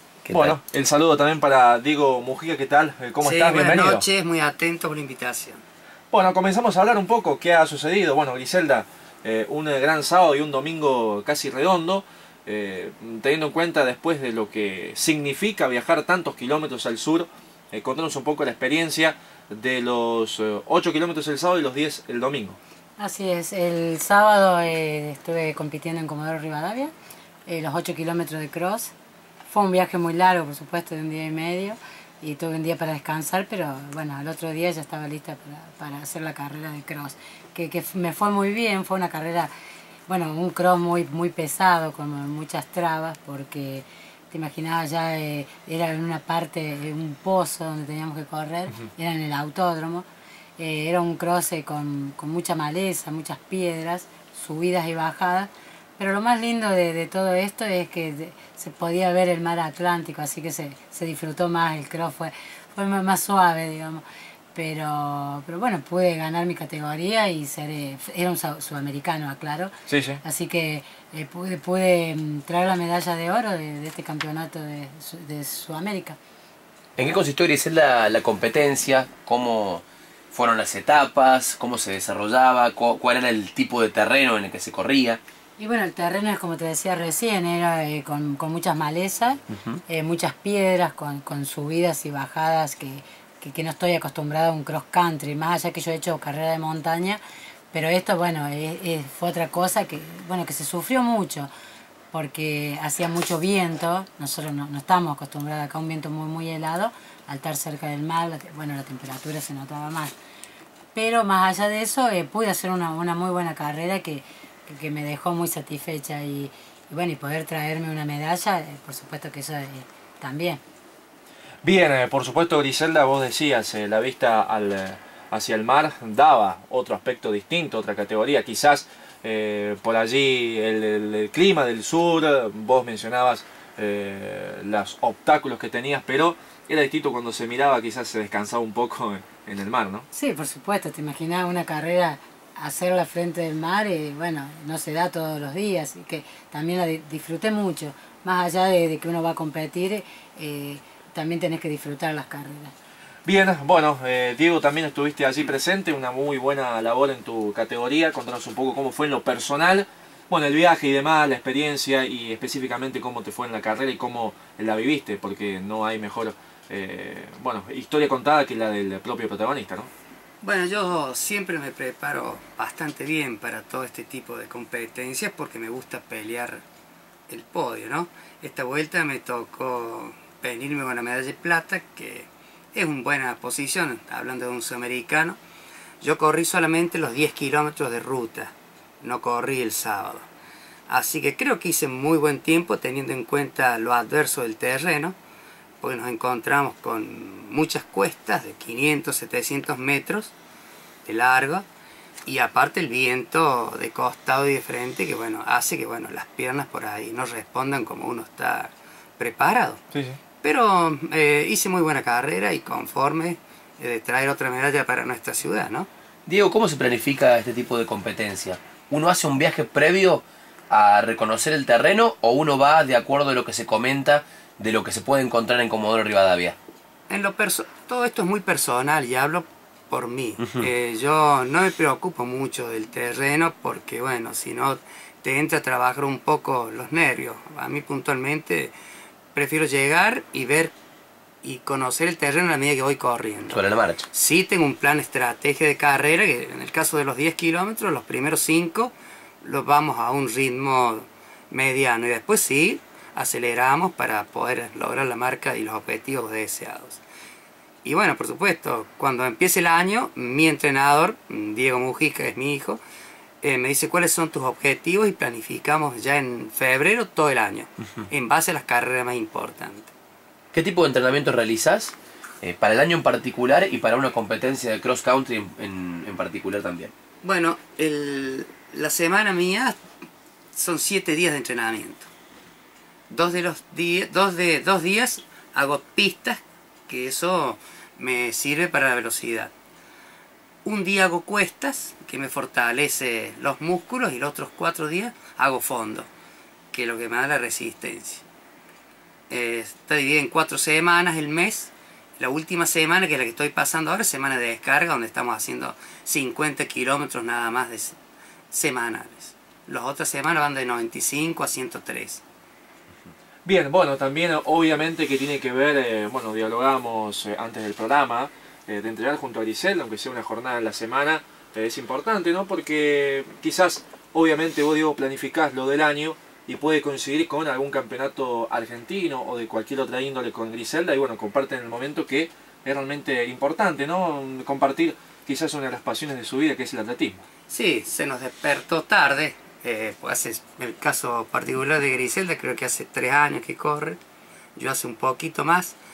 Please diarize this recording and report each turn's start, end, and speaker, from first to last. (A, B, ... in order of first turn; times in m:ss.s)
0:00.2-0:00.6 A
0:00.3-0:04.0 B
0:03.2-0:05.6 C
0:06.1-0:22.6 B
0:23.0-0:26.9 D
0:27.4-0:28.9 D
0:29.5-0:39.5 D
0:40.1-0:50.0 D
0:50.6-1:16.2 D
1:09.9-1:10.2 B
1:17.0-1:25.2 A
1:25.6-1:37.2 D
1:29.5-1:29.8 A
1:37.7-1:41.5 D
1:42.1-1:50.2 D
1:50.9-2:00.6 D
2:01.6-2:20.0 B
2:20.1-2:32.7 D
2:33.2-2:49.9 B
2:50.4-2:56.6 C
2:57.3-3:05.4 C
3:06.0-3:10.3 C
3:10.9-3:15.1 C
3:15.8-3:20.3 C
3:21.0-3:21.6 C
3:22.2-3:29.8 C
3:29.9-3:30.2 B
3:30.4-3:35.9 C
3:36.2-3:46.6 A
3:47.1-3:58.7 C
3:59.3-4:00.7 C
4:01.4-4:17.0 C
4:03.5-4:04.0 A
4:17.8-4:22.8 C
4:23.4-4:29.9 C
4:30.5-4:36.9 A
4:37.2-4:39.8 C
4:40.5-4:42.1 C
4:43.1-4:49.5 C
4:50.6-4:56.1 C
4:56.7-4:58.2 C
4:59.3-5:08.0 C
5:08.5-5:12.2 C
5:13.4-5:37.2 B
5:37.5-5:44.0 C
5:44.6-5:45.8 C